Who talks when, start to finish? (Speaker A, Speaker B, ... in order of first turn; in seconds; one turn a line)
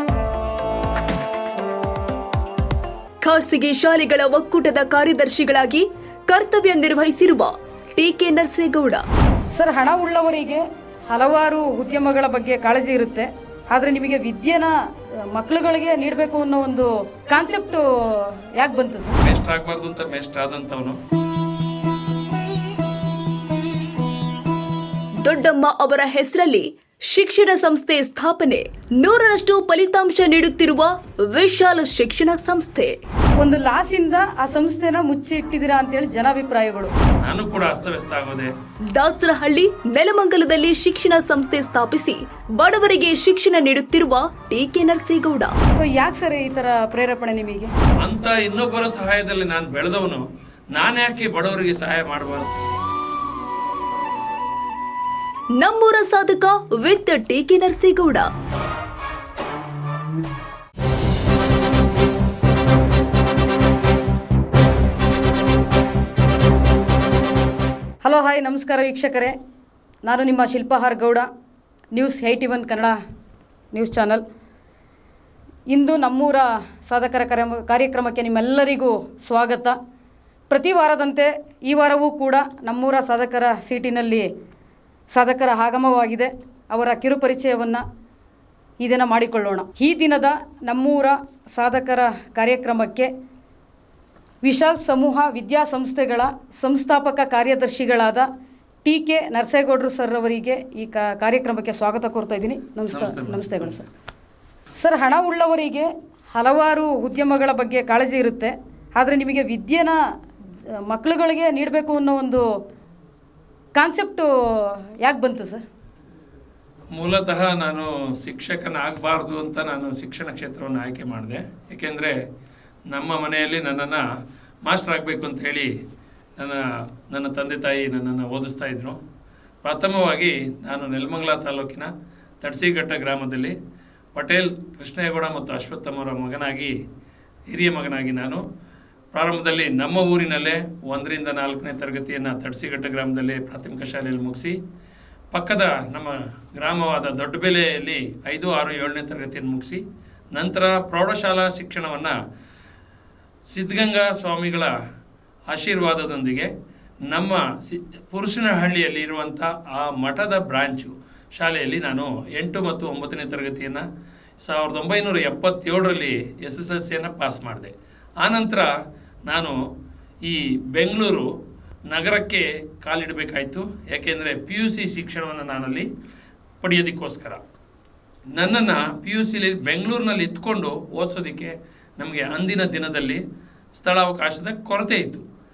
Speaker A: 3.2-9.0
Speaker B: 9.5-14.8
Speaker B: 15.3-19.2
Speaker C: 19.2-21.0
Speaker A: 25.2-33.0
Speaker B: 33.4-36.9
Speaker C: 37.2-38.5
Speaker A: 38.9-45.5
Speaker B: 45.7-47.7
Speaker C: 48.0-52.5
Speaker A: 55.5-58.3
Speaker B: 68.0-69.3
Speaker B: 70.0-71.3
Speaker B: 71.9-73.0
Speaker B: 73.7-74.2
Speaker B: 75.7-79.8
Speaker B: 80.5-84.3
Speaker B: 85.1-87.8
Speaker B: 88.8-93.1
Speaker B: 94.4-98.3
Speaker B: 98.8-103.8
Speaker C: 102.9-103.8
Speaker B: 104.8-110.0
Speaker B: 110.9-112.4
Speaker B: 113.7-115.6
Speaker C: 116.9-122.2
Speaker C: 122.9-124.0
Speaker C: 124.6-125.7
Speaker C: 126.4-129.0
Speaker C: 129.6-133.6
Speaker C: 134.1-136.7
Speaker C: 137.5-138.4
Speaker C: 139.1-144.6
Speaker C: 145.3-149.8
Speaker C: 150.3-152.2
Speaker C: 153.5-154.7
Speaker C: 155.5-156.5
Speaker C: 157.1-163.8
Speaker C: 164.4-168.7
Speaker C: 169.3-169.6
Speaker C: 170.2-171.3
Speaker C: 171.9-175.9
Speaker C: 176.6-177.4
Speaker C: 178.3-183.2
Speaker C: 183.7-185.2